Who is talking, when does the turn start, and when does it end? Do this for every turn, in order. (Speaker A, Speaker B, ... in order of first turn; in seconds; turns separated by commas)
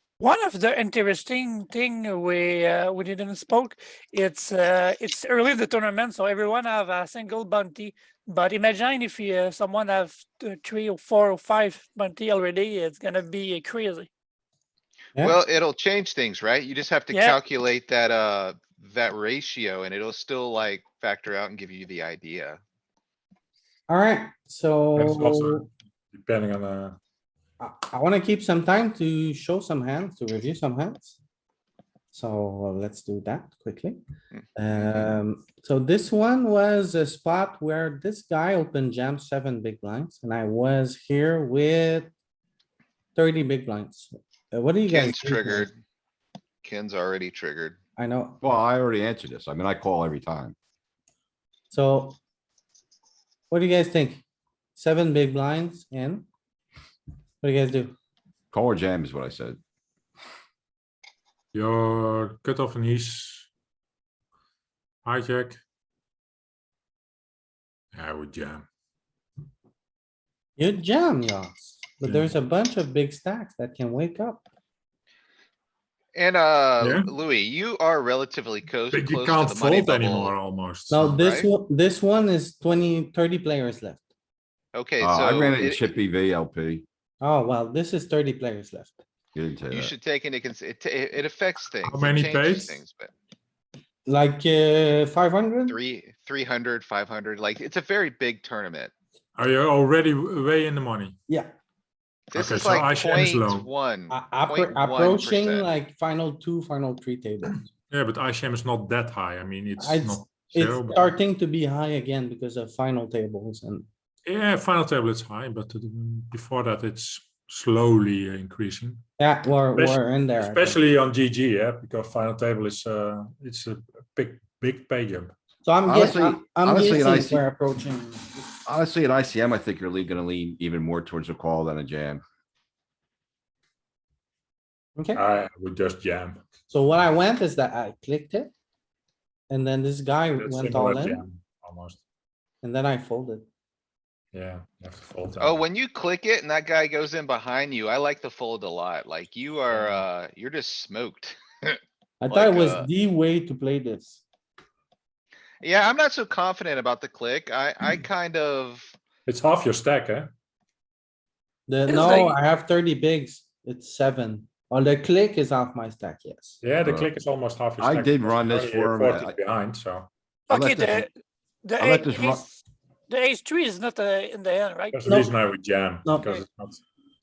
Speaker A: 0.2-14.1, Speaker B: 15.2-22.6, Speaker A: 17.1-17.4, Speaker C: 23.9-25.7, Speaker D: 25.0-27.0, Speaker C: 27.6-31.2, Speaker C: 32.1-34.0, Speaker B: 34.3-35.2, Speaker C: 34.5-42.1, Speaker C: 43.1-45.7, Speaker B: 44.9-45.8, Speaker B: 46.6-47.8, Speaker C: 48.0-48.4, Speaker E: 48.4-50.5, Speaker C: 51.7-52.2, Speaker C: 53.5-54.2, Speaker C: 54.8-56.3, Speaker C: 57.4-58.0, Speaker E: 58.5-59.6, Speaker D: 61.5-63.5, Speaker D: 65.0-65.6, Speaker D: 67.9-68.7, Speaker C: 70.6-74.5, Speaker D: 72.0-72.4, Speaker B: 76.1-80.3, Speaker D: 76.8-77.1, Speaker D: 78.9-81.2, Speaker C: 80.9-84.1, Speaker B: 81.0-81.5, Speaker B: 84.7-86.0, Speaker E: 85.0-86.8, Speaker C: 87.2-89.0, Speaker E: 89.3-89.9, Speaker B: 89.7-93.1, Speaker D: 91.8-92.8, Speaker C: 94.1-95.8, Speaker B: 95.7-98.9, Speaker D: 99.4-101.2, Speaker B: 102.3-105.7, Speaker D: 102.3-103.7, Speaker C: 104.1-107.7, Speaker D: 107.9-111.1, Speaker C: 109.8-113.9, Speaker D: 114.3-119.0, Speaker C: 119.2-120.8, Speaker D: 119.8-125.3, Speaker C: 125.6-128.4, Speaker E: 125.9-127.5, Speaker E: 128.7-132.2, Speaker C: 135.0-135.2, Speaker D: 135.2-136.4, Speaker C: 136.7-138.5, Speaker C: 139.5-141.2, Speaker D: 140.4-142.0, Speaker C: 142.6-143.5, Speaker D: 144.3-145.6, Speaker B: 145.4-151.8, Speaker D: 149.7-150.0, Speaker C: 152.2-154.2, Speaker B: 152.3-152.9, Speaker B: 155.6-158.9, Speaker D: 159.3-160.3, Speaker C: 161.7-166.6, Speaker A: 161.9-162.4, Speaker D: 166.6-170.1, Speaker E: 166.8-167.1, Speaker E: 167.8-169.4, Speaker A: 170.5-171.1, Speaker E: 170.5-171.1, Speaker A: 171.7-172.6, Speaker E: 171.8-172.4, Speaker A: 173.1-175.1, Speaker D: 174.9-176.8, Speaker C: 175.1-175.3, Speaker C: 176.0-176.4